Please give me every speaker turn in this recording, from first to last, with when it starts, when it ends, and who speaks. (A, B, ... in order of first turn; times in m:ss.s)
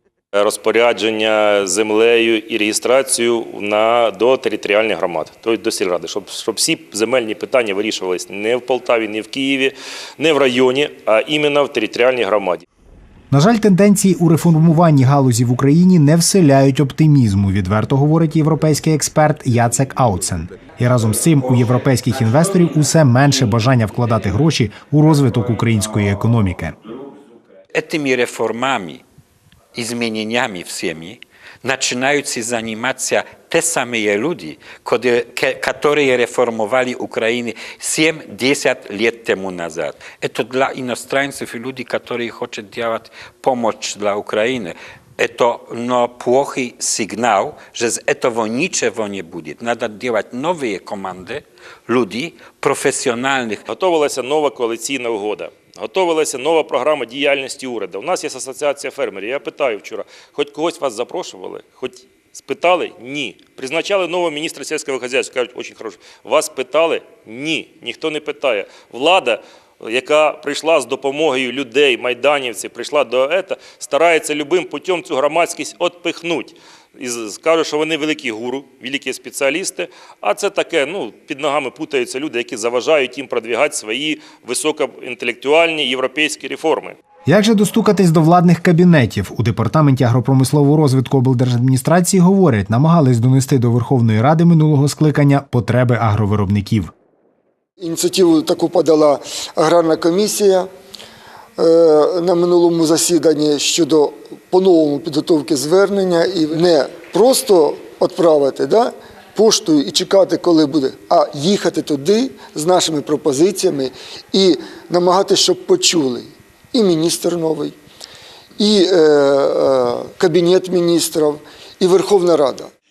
0:00.3-0:12.6 A
0:13.3-0:26.8 B
0:27.7-0:29.0 C
0:29.7-0:53.6 C
0:53.7-1:27.0 A
1:27.2-1:36.9 B
1:37.8-1:40.7 D
1:41.6-1:57.8 D
1:58.6-2:02.7 D